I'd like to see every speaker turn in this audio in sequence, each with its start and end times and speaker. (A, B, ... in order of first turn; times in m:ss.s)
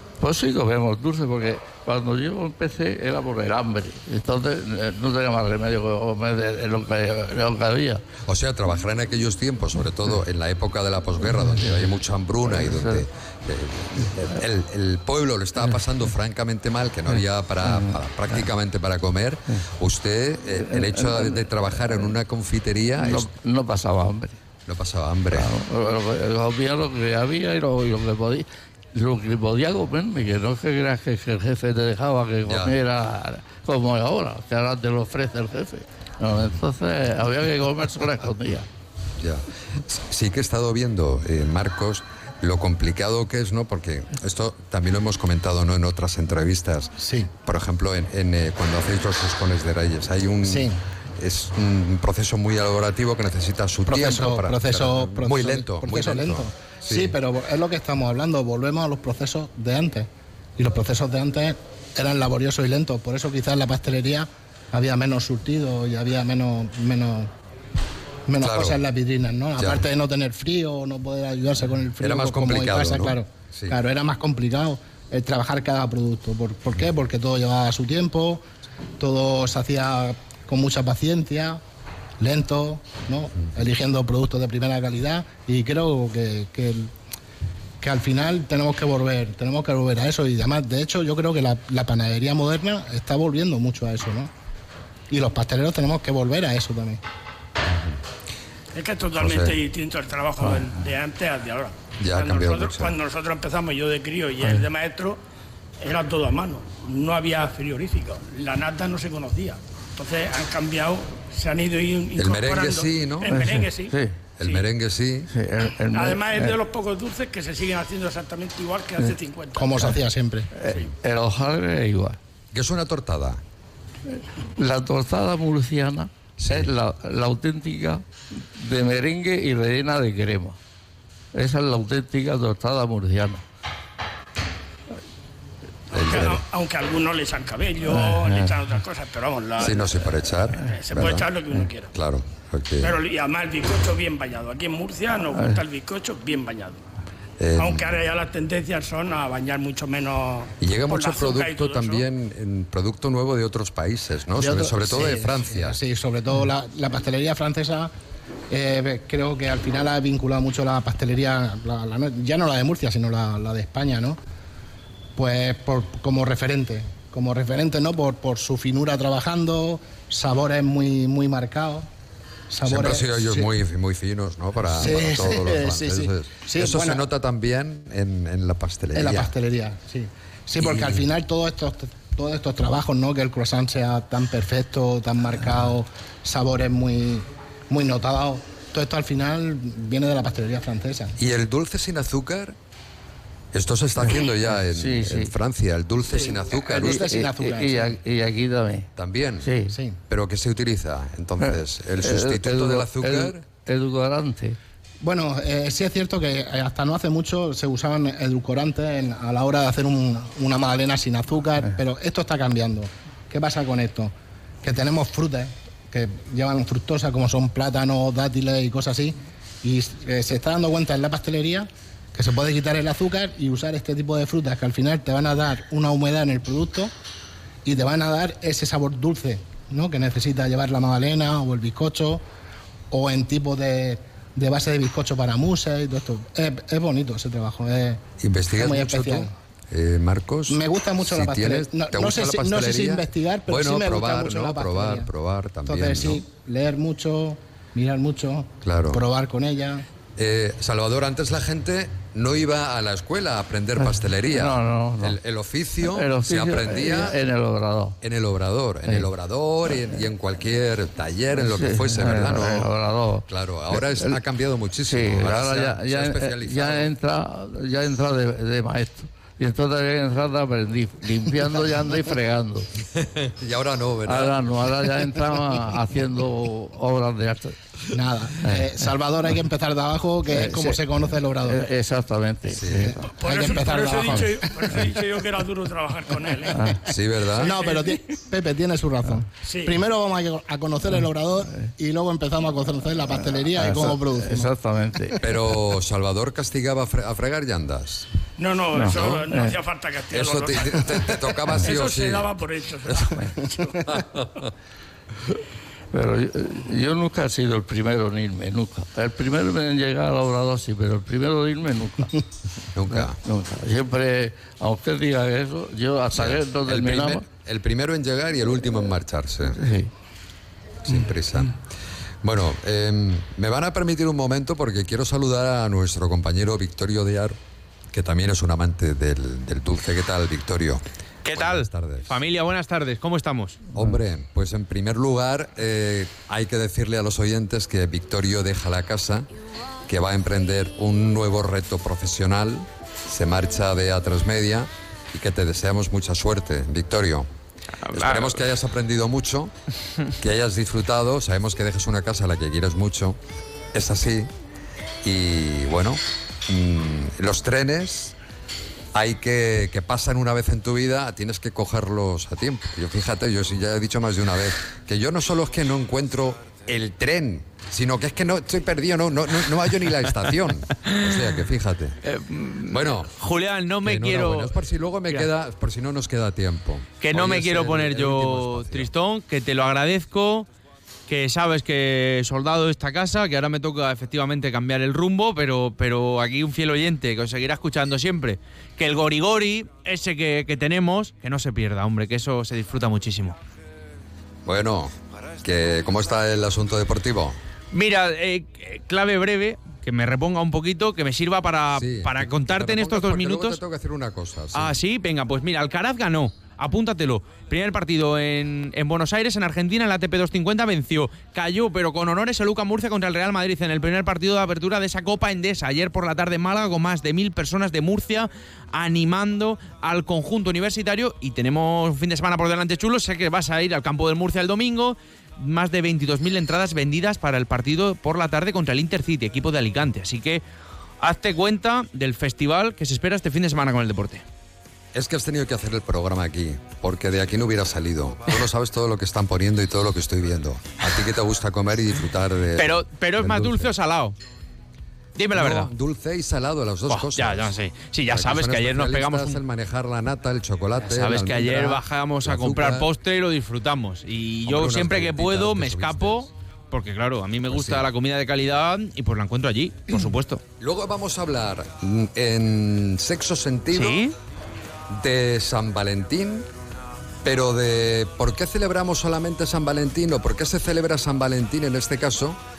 0:00.2-0:08.0 A
0:08.2-0:23.3 B
0:11.3-0:11.9 A
0:12.5-0:13.0 A
0:17.6-0:18.4 A
0:20.6-0:22.1 A
0:23.0-0:24.4 A
0:24.6-0:25.5 B
0:25.3-0:38.7 A
0:32.4-0:32.7 B
0:39.2-0:57.1 B
0:47.0-0:47.3 C
0:50.4-0:50.8 C
0:53.9-1:07.3 C
1:08.3-1:18.4 C
1:08.4-1:08.8 B
1:09.6-1:09.8 B
1:12.0-1:13.8 B
1:19.0-1:21.6 C
1:22.2-1:26.9 C
1:27.8-1:34.3 C
1:35.1-1:37.0 C
1:38.7-1:45.2 D
1:39.2-1:39.6 B
1:42.0-1:43.0 B
1:44.4-1:44.7 A
1:45.8-1:54.7 D
1:52.2-1:53.4 B
1:53.2-1:54.2 A
1:54.4-1:55.3 B
1:55.3-1:56.6 A
1:55.9-1:59.8 D
1:59.6-2:00.5 C
2:00.5-2:02.2 A
2:02.5-2:03.4 B
2:04.2-2:10.6 A
2:06.4-2:06.7 B
2:11.3-2:13.4 A
2:15.9-2:16.4 B
2:16.0-2:20.0 D
2:17.9-2:18.6 A
2:19.6-2:21.3 B
2:20.7-2:21.9 D
2:21.9-2:23.0 B
2:22.8-2:26.8 D
2:25.3-2:25.6 A
2:27.4-2:28.0 B
2:27.5-2:32.1 D
2:30.6-2:35.8 B
2:34.4-2:37.9 C
2:38.5-2:44.2 C
2:45.2-2:51.8 C
2:52.5-2:53.5 C
2:52.6-2:59.3 B
2:54.7-2:57.0 C
2:58.9-3:11.1 C
3:00.6-3:01.0 B
3:11.2-3:12.6 B
3:13.5-3:17.1 B
3:14.0-3:15.3 A
3:16.1-3:18.0 C
3:16.8-3:18.9 A
3:19.0-3:19.5 B
3:19.4-3:19.7 A
3:19.7-3:20.0 C
3:20.1-3:23.4 B
3:21.4-3:24.6 A
3:25.0-3:46.9 C
3:47.6-3:52.2 C
3:52.9-3:58.0 C
3:58.2-4:06.2 B
3:58.6-3:59.3 C
4:00.5-4:05.1 C
4:05.6-4:09.8 C
4:08.6-4:09.0 B
4:10.2-4:17.2 B
4:13.8-4:15.2 A
4:15.8-4:18.0 A
4:18.0-4:22.7 B
4:21.4-4:24.2 A
4:23.3-4:26.9 B
4:24.9-4:32.7 A
4:33.0-4:34.4 B
4:34.0-4:37.6 A
4:37.9-4:41.6 C
4:40.3-4:40.8 A
4:41.5-4:42.9 A
4:42.5-4:42.9 B
4:42.7-4:44.9 C
4:43.1-4:46.7 D
4:44.1-4:44.9 A
4:46.5-4:46.8 A
4:46.9-4:47.5 B
4:47.4-4:54.5 C
4:47.4-4:48.0 D
4:49.4-4:49.8 D
4:53.3-4:55.2 A
4:55.2-4:58.0 B
4:58.4-5:01.0 D
4:58.7-4:59.6 A
4:58.8-4:59.3 B
5:00.1-5:02.3 B
5:01.5-5:03.3 D
5:05.9-5:12.1 A
5:12.7-5:13.2 B
5:12.9-5:17.2 A
5:16.1-5:19.6 B
5:19.6-5:19.9 A
5:20.8-5:21.6 B
5:22.2-5:27.4 B
5:27.9-5:32.2 B
5:31.2-5:33.7 E
5:33.7-5:39.3 B
5:39.9-5:47.3 B
5:47.9-5:49.5 B
5:48.1-5:48.4 E
5:50.2-5:53.2 B
5:53.7-5:54.3 B
5:55.0-5:58.1 B
5:58.9-6:12.0 B
6:12.0-6:14.5 E
6:12.7-6:13.1 B
6:13.8-6:18.9 B
6:17.0-6:20.5 E
6:21.1-6:33.4 E
6:34.4-6:37.4 B
6:37.7-6:43.6 E
6:41.7-6:44.7 B
6:44.5-7:10.4 E
7:11.0-7:14.2 E
7:14.9-7:23.7 B
7:22.6-7:24.2 E
7:25.2-7:25.7 E
7:25.3-7:27.5 B
7:26.9-7:29.4 E
7:28.1-7:32.9 B
7:30.8-7:40.4 E
7:34.4-7:36.3 B
7:37.5-7:37.9 B
7:40.6-7:44.0 B
7:43.7-7:44.1 E
7:44.9-7:46.5 B
7:47.2-7:52.4 B